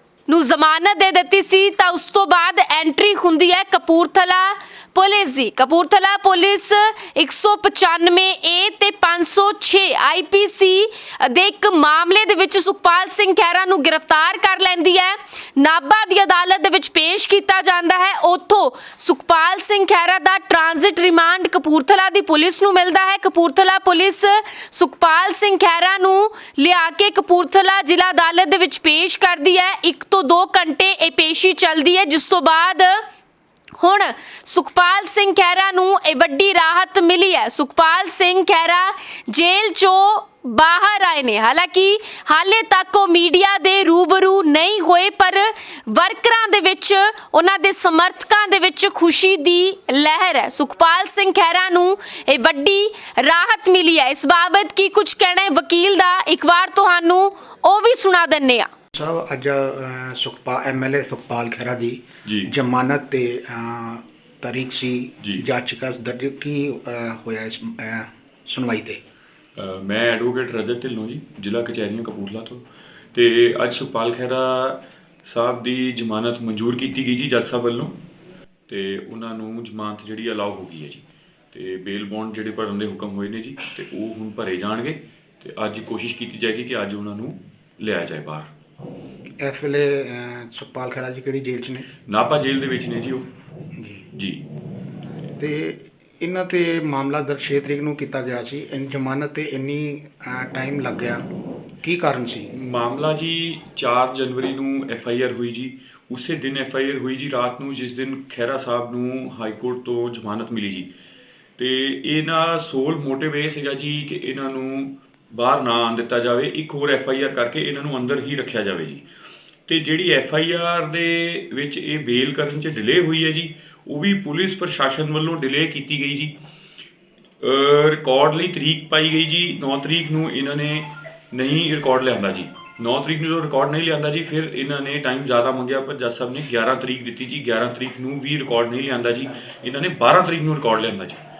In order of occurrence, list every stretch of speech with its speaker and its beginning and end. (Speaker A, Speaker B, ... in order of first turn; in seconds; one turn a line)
Speaker A: 0.3-33.0
Speaker A: 33.8-58.7
Speaker B: 59.0-69.0
Speaker C: 62.2-62.5
Speaker C: 69.6-78.0
Speaker C: 78.7-88.5
Speaker B: 89.4-91.9
Speaker C: 92.1-93.3
Speaker B: 93.8-94.0
Speaker C: 94.1-94.4
Speaker B: 95.4-101.2
Speaker B: 101.8-102.5
Speaker C: 102.5-110.9
Speaker C: 111.6-119.0
Speaker C: 119.7-126.3
Speaker C: 127.4-141.2